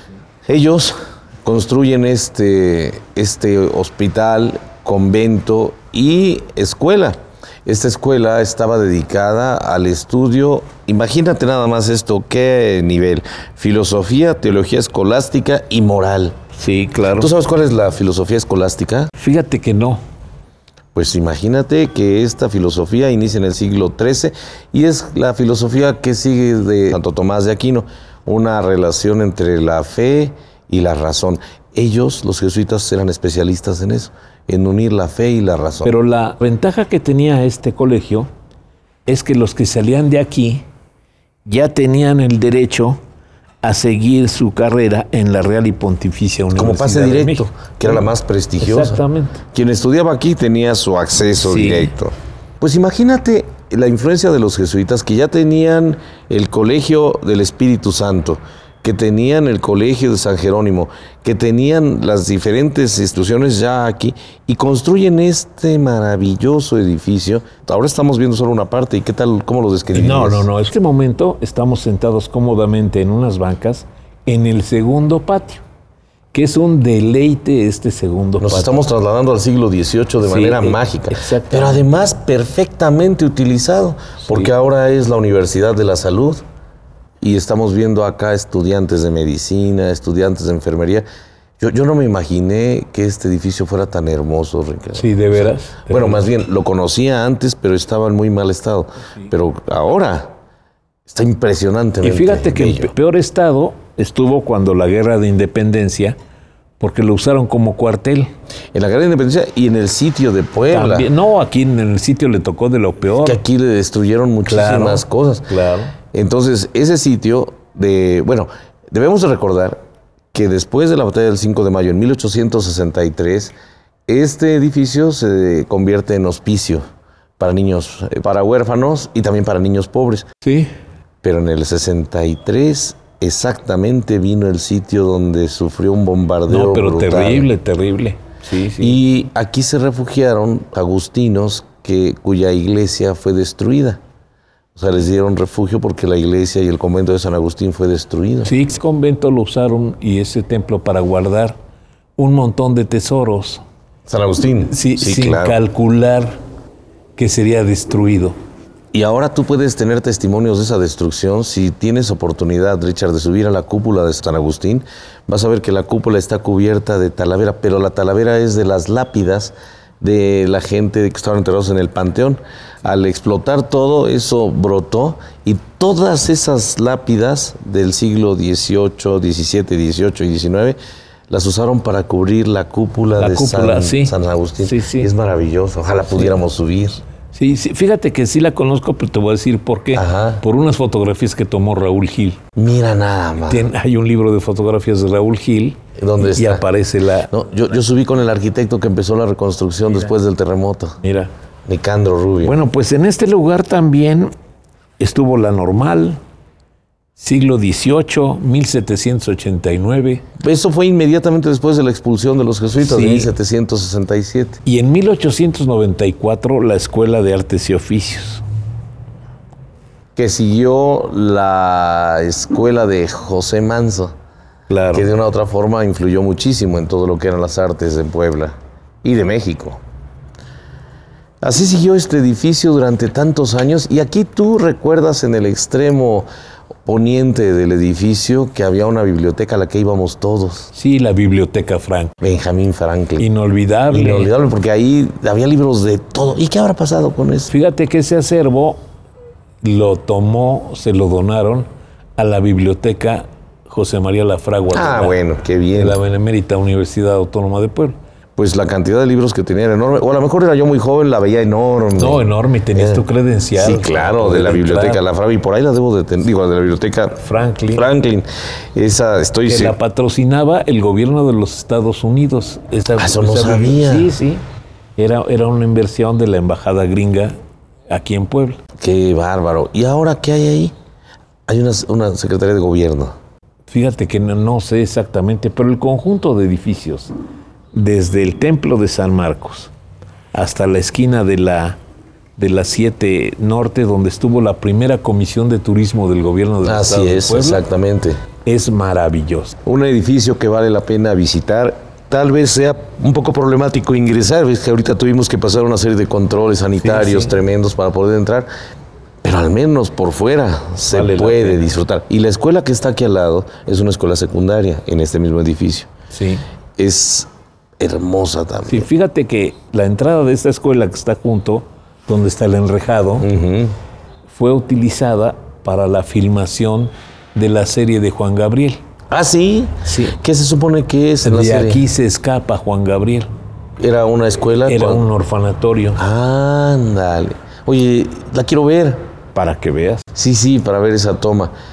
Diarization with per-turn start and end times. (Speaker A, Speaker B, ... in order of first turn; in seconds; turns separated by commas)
Speaker A: 0.5-16.4, Speaker B: 16.6-17.3, Speaker A: 17.1-19.1, Speaker B: 19.2-20.0, Speaker A: 20.9-36.0, Speaker B: 35.9-38.3, Speaker B: 39.1-40.6, Speaker B: 41.5-43.0, Speaker B: 43.6-48.1, Speaker A: 46.5-70.5, Speaker B: 48.6-49.4, Speaker B: 51.4-51.9, Speaker B: 69.9-75.6, Speaker B: 76.3-78.8, Speaker A: 78.4-86.4, Speaker B: 80.2-81.9, Speaker B: 84.2-84.5, Speaker A: 87.2-91.1, Speaker A: 91.6-100.3, Speaker B: 95.0-96.2, Speaker A: 101.1-102.9, Speaker B: 102.0-106.2, Speaker B: 106.8-108.3, Speaker A: 108.7-111.1, Speaker B: 110.7-113.4, Speaker A: 113.1-115.5, Speaker B: 114.5-116.0, Speaker A: 116.1-119.8, Speaker A: 120.3-123.5, Speaker A: 124.1-126.8, Speaker A: 127.4-130.3, Speaker B: 130.4-130.7, Speaker A: 131.2-137.5, Speaker B: 136.5-139.0, Speaker A: 138.8-144.0, Speaker A: 144.8-148.5, Speaker B: 148.4-151.6, Speaker B: 152.2-153.6, Speaker A: 154.1-155.6, Speaker B: 154.7-156.4, Speaker B: 157.2-158.4, Speaker A: 158.9-180.8, Speaker A: 181.3-187.0, Speaker B: 183.2-185.1, Speaker B: 186.0-186.4, Speaker B: 187.3-192.4, Speaker A: 189.9-190.4, Speaker A: 192.6-193.7, Speaker B: 193.5-197.3, Speaker A: 196.0-196.7, Speaker A: 197.3-201.0, Speaker B: 201.0-201.3, Speaker A: 201.7-202.6, Speaker B: 202.4-204.3, Speaker B: 205.0-206.2, Speaker B: 207.2-210.2, Speaker A: 210.4-214.6, Speaker B: 212.8-213.3, Speaker B: 214.6-218.4, Speaker A: 220.2-224.1, Speaker B: 224.7-225.1, Speaker A: 224.9-229.8, Speaker A: 231.4-236.3, Speaker A: 236.9-240.7, Speaker B: 240.7-242.1, Speaker A: 242.2-243.3, Speaker B: 243.2-244.3, Speaker A: 243.9-247.5, Speaker B: 247.5-248.8, Speaker B: 249.6-255.2, Speaker A: 254.7-256.0, Speaker B: 255.8-257.9, Speaker A: 258.4-267.2, Speaker B: 262.0-265.0, Speaker B: 267.2-267.9, Speaker A: 267.7-269.8, Speaker B: 269.4-274.4, Speaker A: 273.0-274.1, Speaker B: 275.0-277.4, Speaker B: 277.9-278.6, Speaker A: 278.8-280.7, Speaker A: 281.5-283.1, Speaker B: 283.7-287.1, Speaker B: 287.7-289.7, Speaker B: 290.3-291.8, Speaker B: 292.4-297.6, Speaker A: 296.6-298.2, Speaker B: 298.4-299.6, Speaker A: 299.6-308.5, Speaker B: 306.8-307.4, Speaker A: 309.2-315.9, Speaker B: 310.9-311.7, Speaker B: 316.1-316.4, Speaker A: 316.8-317.3, Speaker A: 317.8-318.9, Speaker B: 318.7-323.3, Speaker A: 323.2-323.8, Speaker B: 324.3-328.8, Speaker A: 329.1-331.9, Speaker B: 329.9-330.2, Speaker B: 331.2-333.3, Speaker A: 333.8-335.1, Speaker B: 334.6-336.0, Speaker A: 336.0-339.0, Speaker B: 339.3-340.0, Speaker A: 340.1-341.5